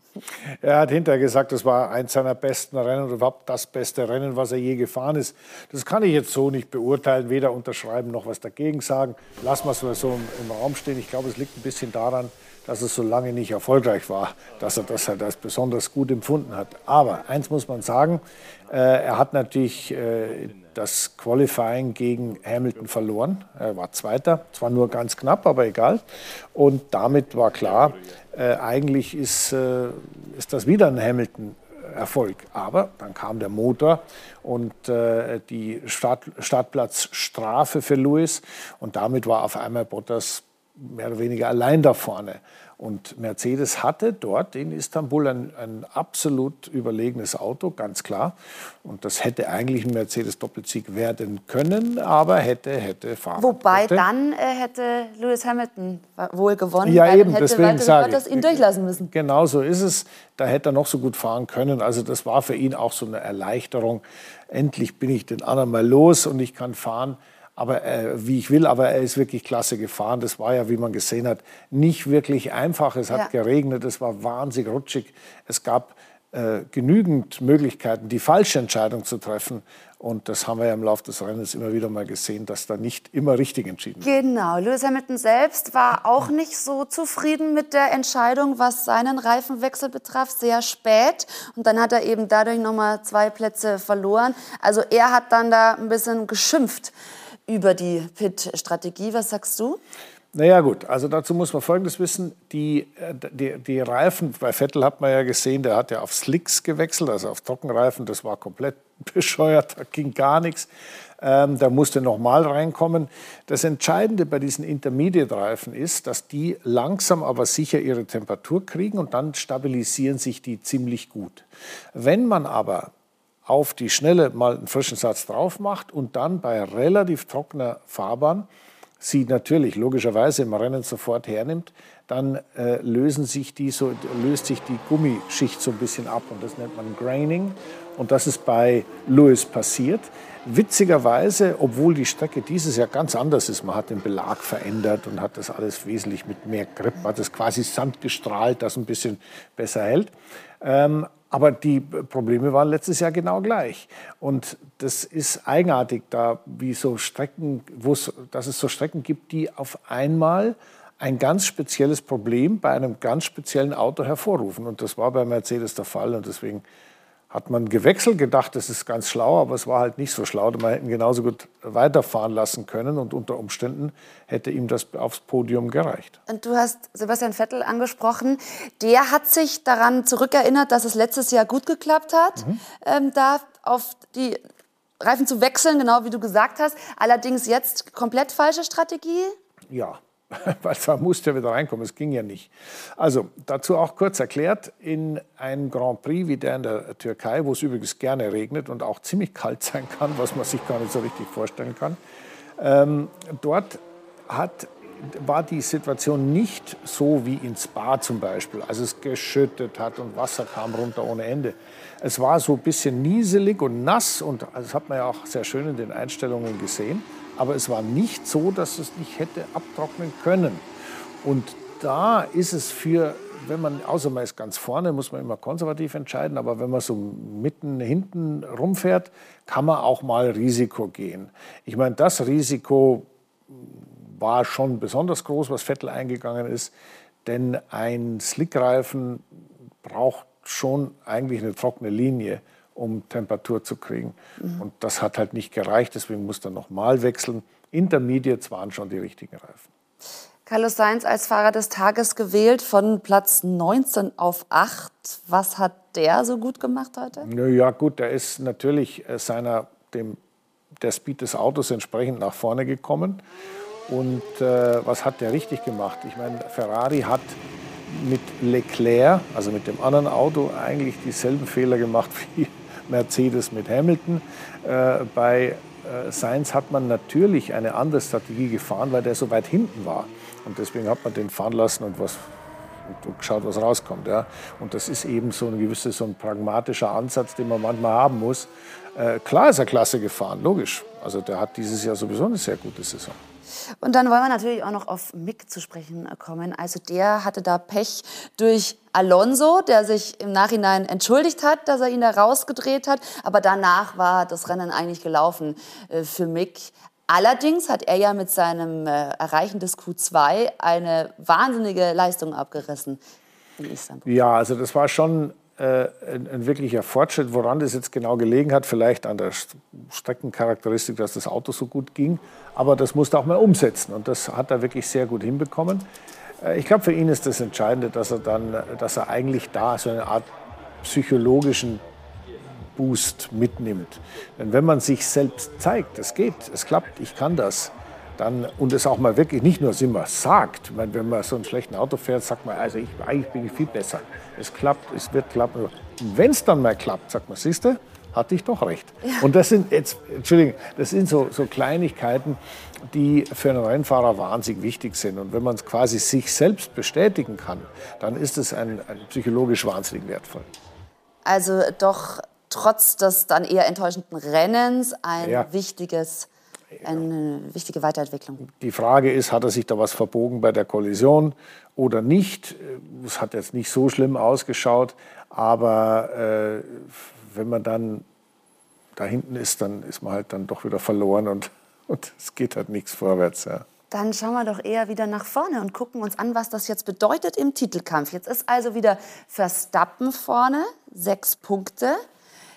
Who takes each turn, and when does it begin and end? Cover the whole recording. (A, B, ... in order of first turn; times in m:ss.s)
0:00.6-0:54.0 A
0:53.4-0:59.1 B
0:56.8-1:24.1 A
1:24.0-1:36.9 B
1:37.5-1:39.8 B
1:40.3-2:02.9 A
2:03.4-2:08.5 A
2:09.0-2:46.6 A
2:47.3-2:56.2 A
2:56.3-3:04.4 B
3:05.0-3:09.3 B
3:09.7-3:22.0 A
3:22.6-3:40.7 A
3:41.2-3:56.7 A
3:57.2-3:59.3 A
3:59.8-4:09.7 A
4:04.4-4:04.6 B
4:10.5-4:17.3 B
4:17.2-4:20.2 A
4:20.8-4:23.2 A
4:23.9-4:42.2 A
4:42.8-4:53.2 A
4:53.8-5:13.0 B
5:13.6-5:14.1 B
5:14.0-5:25.9 A
5:26.4-5:30.3 A
5:30.8-5:31.8 A
5:32.8-6:00.5 A
6:01.2-6:06.3 B
6:05.2-6:05.5 A
6:06.8-6:08.4 B
6:08.5-6:18.0 A
6:19.0-6:23.6 A
6:23.9-6:32.0 B